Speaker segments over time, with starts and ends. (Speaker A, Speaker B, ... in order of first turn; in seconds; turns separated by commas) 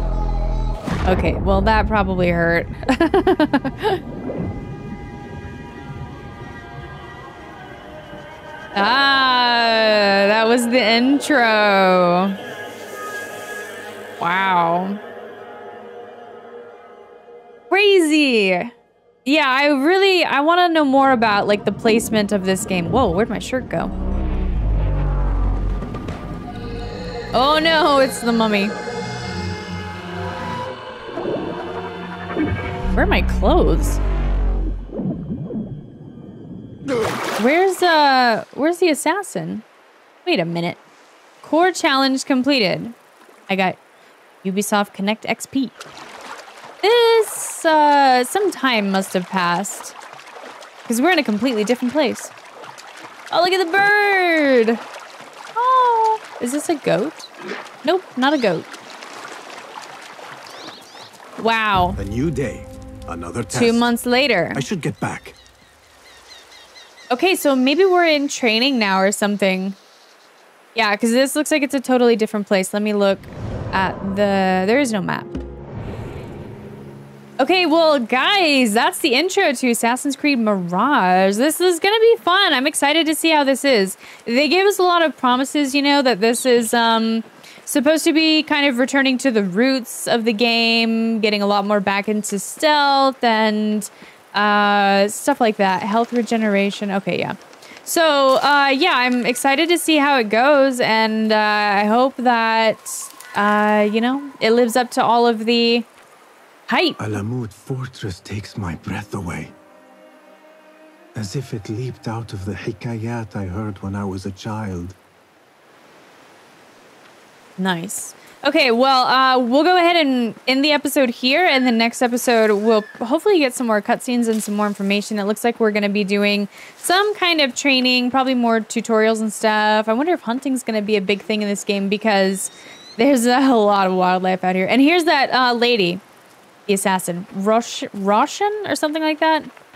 Speaker A: 1.1-4.0, Speaker A: 8.7-12.4, Speaker A: 14.2-15.0, Speaker A: 17.7-18.7, Speaker A: 19.2-23.9, Speaker A: 27.3-28.7, Speaker A: 32.9-34.0, Speaker A: 37.4-39.6, Speaker A: 40.2-40.8, Speaker A: 41.4-42.9, Speaker A: 43.5-43.8, Speaker A: 44.4-45.8, Speaker A: 46.8-50.0, Speaker A: 50.9-52.3, Speaker A: 53.3-54.8, Speaker A: 55.5-57.3, Speaker A: 57.8-58.7, Speaker A: 61.4-62.0, Speaker B: 62.0-63.9, Speaker A: 63.5-64.6, Speaker B: 64.5-65.4, Speaker A: 67.1-69.8, Speaker A: 70.7-75.4, Speaker A: 77.4-105.9, Speaker A: 106.7-107.0, Speaker B: 107.0-109.5, Speaker B: 111.1-115.0, Speaker A: 117.6-136.0, Speaker A: 136.7-139.5